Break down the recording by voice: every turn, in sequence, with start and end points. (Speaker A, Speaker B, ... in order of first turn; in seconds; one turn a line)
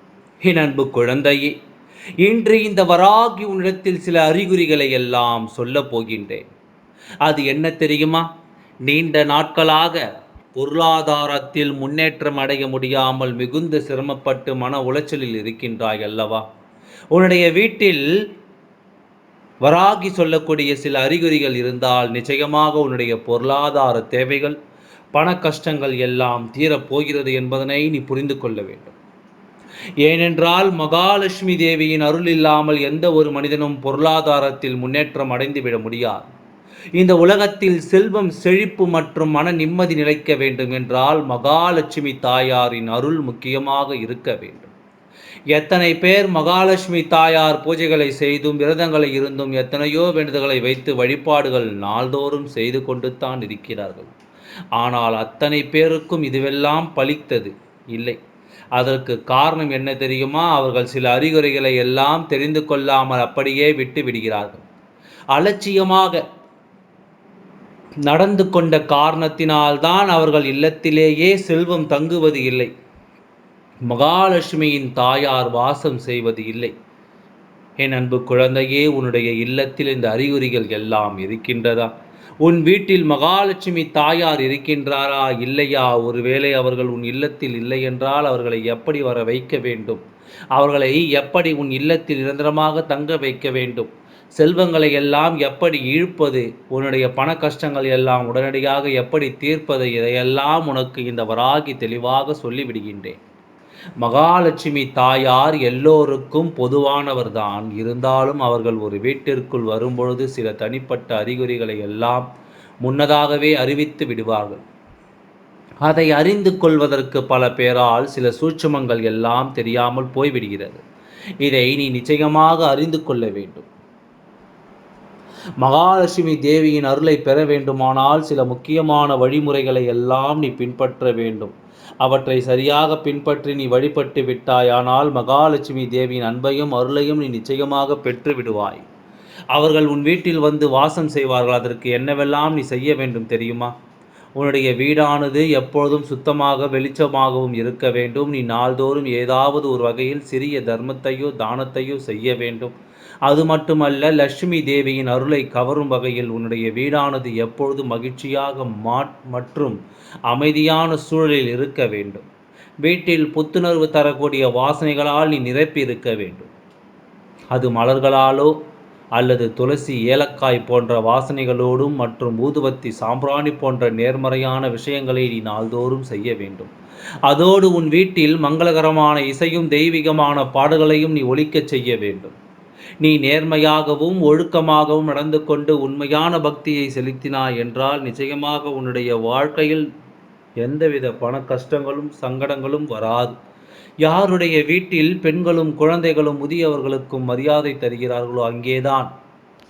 Speaker A: 0.4-1.5
Speaker A: 2.2-6.4
Speaker A: 7.2-8.3
Speaker A: 8.8-16.4
Speaker A: 17.1-18.1
Speaker A: 19.6-24.6
Speaker A: 25.1-28.9
Speaker A: 30.0-36.3
Speaker A: 37.0-44.7
Speaker A: 45.5-54.1
Speaker A: 54.8-58.2
Speaker A: 58.8-64.6
Speaker A: 65.3-66.2
Speaker A: 68.0-72.7
Speaker A: 73.9-76.7
Speaker A: 77.8-90.0
Speaker A: 90.5-103.2
Speaker A: 104.0-112.2
Speaker A: 112.8-114.6
Speaker A: 115.8-120.8
Speaker A: 121.4-123.7
Speaker A: 125.6-138.8
Speaker A: 139.5-143.7
Speaker A: 144.3-152.7
Speaker A: 153.2-159.8
Speaker A: 160.3-162.2
Speaker A: 162.8-166.5
Speaker A: 167.5-168.5
Speaker A: 169.2-176.7
Speaker A: 177.3-182.3
Speaker A: 183.0-189.8
Speaker A: 190.6-193.3
Speaker A: 194.0-199.1